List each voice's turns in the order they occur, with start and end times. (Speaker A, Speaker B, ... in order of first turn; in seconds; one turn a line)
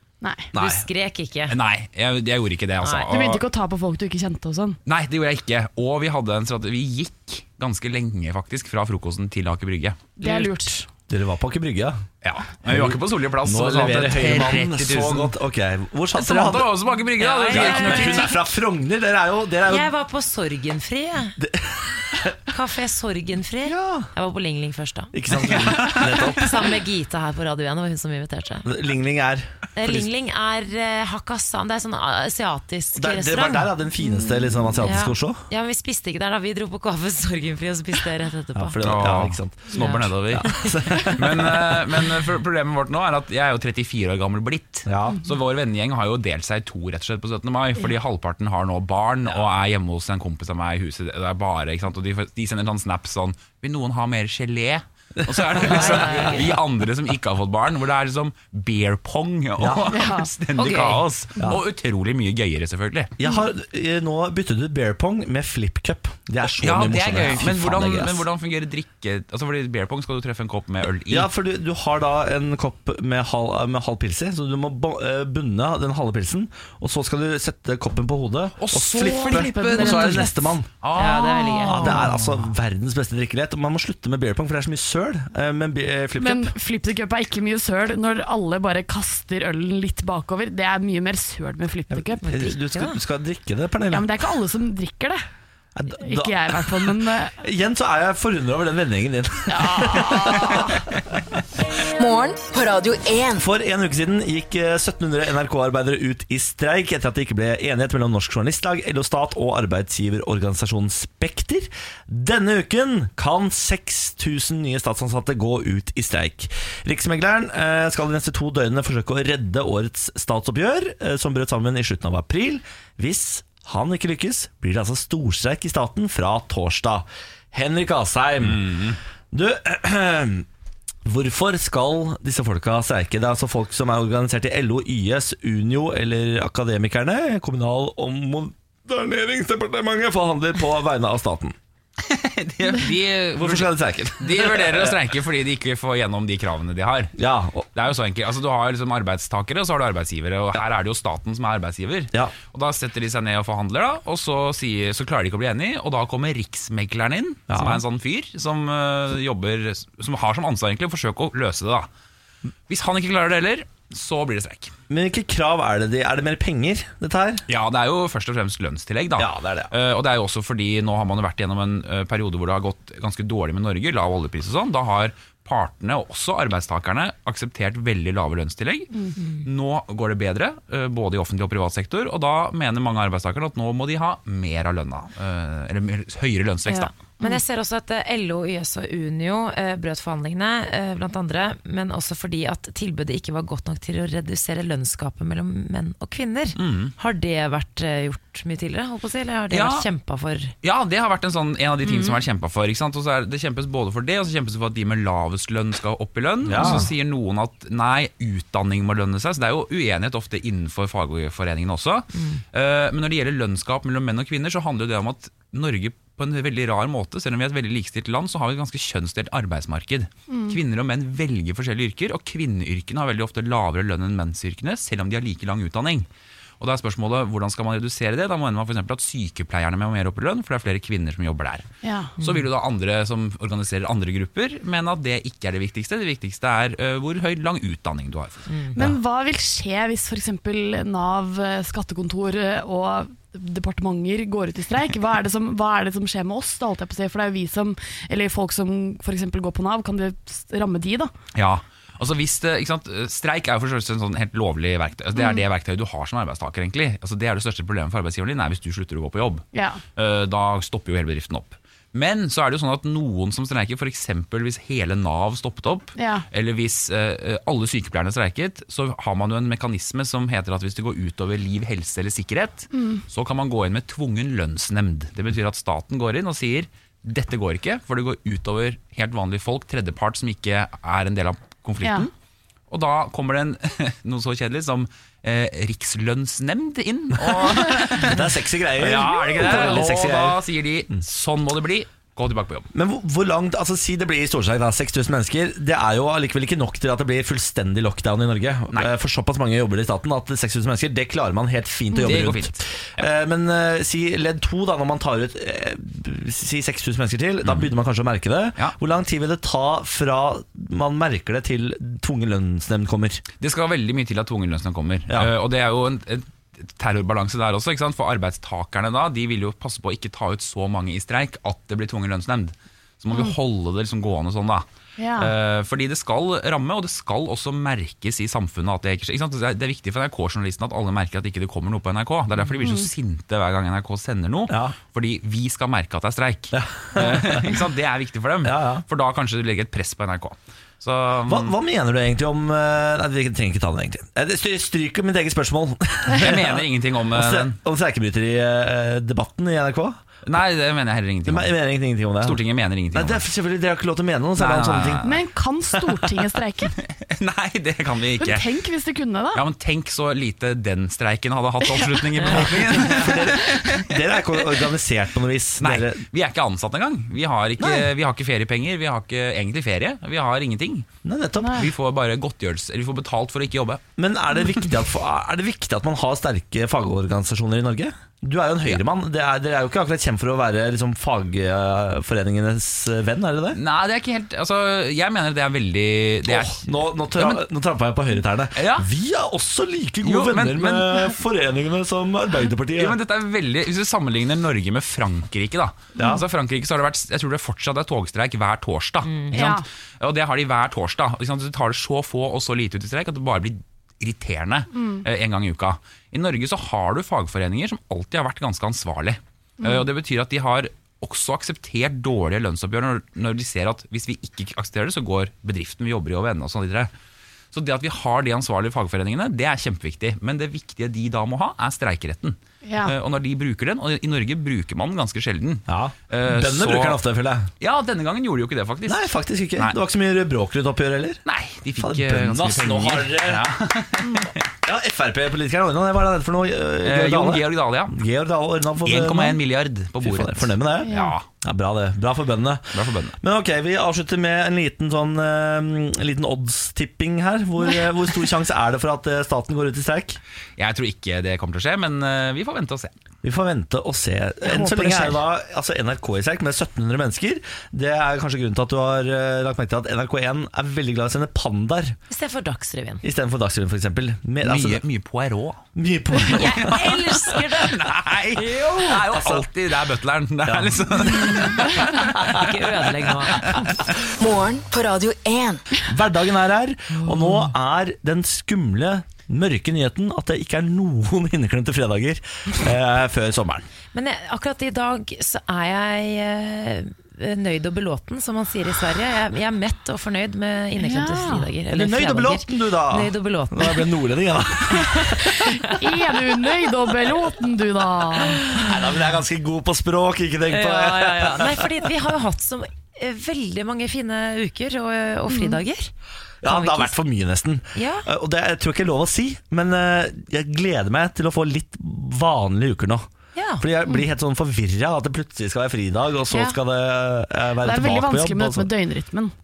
Speaker A: 0.2-0.5
Speaker B: 0.5-1.6
Speaker C: 1.5-3.4
Speaker B: 2.8-3.1
Speaker A: 3.1-4.8
Speaker C: 4.8-10.2
Speaker B: 10.2-10.7
Speaker A: 10.2-10.9
Speaker D: 11.1-12.1
Speaker C: 12.2-15.3
Speaker D: 12.6-16.7
Speaker C: 16.1-18.4
Speaker B: 17.2-18.4
Speaker D: 17.5-19.9
Speaker B: 19.6-21.4
Speaker D: 21.4-22.4
Speaker B: 22.5-28.7
Speaker D: 23.6-24.1
Speaker D: 25.1-26.5
Speaker C: 25.3-26.2
Speaker D: 28.6-30.1
Speaker B: 29.8-33.7
Speaker D: 32.9-35.5
Speaker B: 34.8-38.8
Speaker D: 38.5-41.8
Speaker C: 38.8-63.1
Speaker B: 39.7-40.7
Speaker D: 44.8-45.2
Speaker D: 55.5-56.3
Speaker B: 55.7-56.5
Speaker D: 59.6-59.9
Speaker A: 59.9-60.3
Speaker B: 60.5-61.0
Speaker D: 63.2-68.2
Speaker C: 66.4-71.3
Speaker D: 71.1-80.7
Speaker C: 78.6-82.5
Speaker A: 78.9-80.5
Speaker B: 80.9-82.0
Speaker D: 81.6-86.5
Speaker A: 86.2-92.3
Speaker D: 91.9-94.1
Speaker B: 92.2-93.0
Speaker A: 93.9-95.2
Speaker D: 95.8-101.2
Speaker A: 96.0-97.4
Speaker A: 99.5-100.8
Speaker E: 102.0-103.4
Speaker D: 103.4-130.4
Speaker C: 128.4-129.0
Speaker D: 131.0-141.6
Speaker C: 142.0-147.1
Speaker D: 143.3-145.0
Speaker D: 147.2-147.7
Speaker C: 147.7-161.9
Speaker D: 157.5-157.8
Speaker C: 162.7-164.7
Speaker D: 164.9-167.4
Speaker C: 167.5-178.9
Speaker D: 169.2-169.7
Speaker B: 179.2-179.4
Speaker C: 179.4-187.0
Speaker B: 186.7-200.5
Speaker C: 196.6-196.9
Speaker C: 199.5-199.8
Speaker C: 200.6-226.1
Speaker B: 201.8-202.2
Speaker D: 206.4-206.9
Speaker B: 206.6-206.9
Speaker B: 212.1-212.4
Speaker A: 220.3-220.6
Speaker C: 226.6-231.7
Speaker A: 231.8-232.1
Speaker B: 232.2-232.5
Speaker C: 232.2-238.9
Speaker B: 238.5-238.7
Speaker A: 238.7-251.1
Speaker C: 251.3-259.4
Speaker A: 255.2-255.4
Speaker A: 259.5-259.8
Speaker C: 259.9-282.1
Speaker A: 265.9-266.2
Speaker A: 272.7-273.0
Speaker A: 281.8-282.1
Speaker C: 282.7-292.7
Speaker D: 287.2-290.4
Speaker D: 292.7-313.2
Speaker C: 302.0-303.1
Speaker C: 307.4-307.7
Speaker C: 313.4-341.6
Speaker A: 325.0-325.3
Speaker D: 334.5-334.7
Speaker D: 336.5-337.5
Speaker D: 338.4-338.8
Speaker D: 341.2-350.0
Speaker C: 346.1-347.6
Speaker C: 350.2-351.6
Speaker D: 351.2-355.0
Speaker C: 352.2-353.2
Speaker C: 354.4-355.2
Speaker A: 355.0-356.7
Speaker C: 355.7-356.2
Speaker C: 356.7-358.4
Speaker A: 358.2-359.4
Speaker C: 359.3-364.7
Speaker A: 361.6-363.0
Speaker D: 362.8-366.0
Speaker C: 365.6-370.9
Speaker D: 367.6-367.9
Speaker D: 371.0-371.7
Speaker A: 371.4-371.7
Speaker C: 371.5-373.9
Speaker D: 374.0-383.6
Speaker C: 383.5-387.4
Speaker D: 386.3-393.0
Speaker C: 388.5-388.9
Speaker C: 390.0-391.1
Speaker C: 392.7-416.9
Speaker B: 399.1-399.5
Speaker A: 399.3-399.6
Speaker C: 417.5-427.0
Speaker A: 422.6-423.0
Speaker D: 425.7-427.5
Speaker C: 427.6-429.8
Speaker D: 428.9-431.2
Speaker C: 431.2-434.4
Speaker D: 431.7-433.5
Speaker D: 434.6-439.4
Speaker C: 436.8-438.0
Speaker C: 438.8-441.3
Speaker D: 440.0-450.2
Speaker A: 440.8-441.2
Speaker C: 442.7-443.2
Speaker C: 450.6-452.9
Speaker D: 453.2-462.0
Speaker A: 454.4-455.1
Speaker B: 462.1-463.0
Speaker D: 463.0-464.8
Speaker C: 464.4-465.7
Speaker D: 465.7-466.9
Speaker B: 466.3-469.0
Speaker C: 466.3-473.8
Speaker D: 469.0-469.5
Speaker D: 470.4-472.6
Speaker B: 471.6-473.7
Speaker E: 474.2-475.7
Speaker D: 475.9-483.7
Speaker B: 483.9-493.9
Speaker A: 490.8-491.5
Speaker D: 491.7-495.8
Speaker B: 494.7-495.7
Speaker A: 495.7-498.6
Speaker B: 498.3-498.7
Speaker D: 498.4-501.7
Speaker B: 500.5-505.9
Speaker A: 505.3-505.6
Speaker D: 506.4-513.1
Speaker B: 506.4-507.0
Speaker B: 507.7-508.1
Speaker B: 513.3-513.6
Speaker D: 513.6-518.7
Speaker B: 516.3-516.6
Speaker A: 517.6-519.3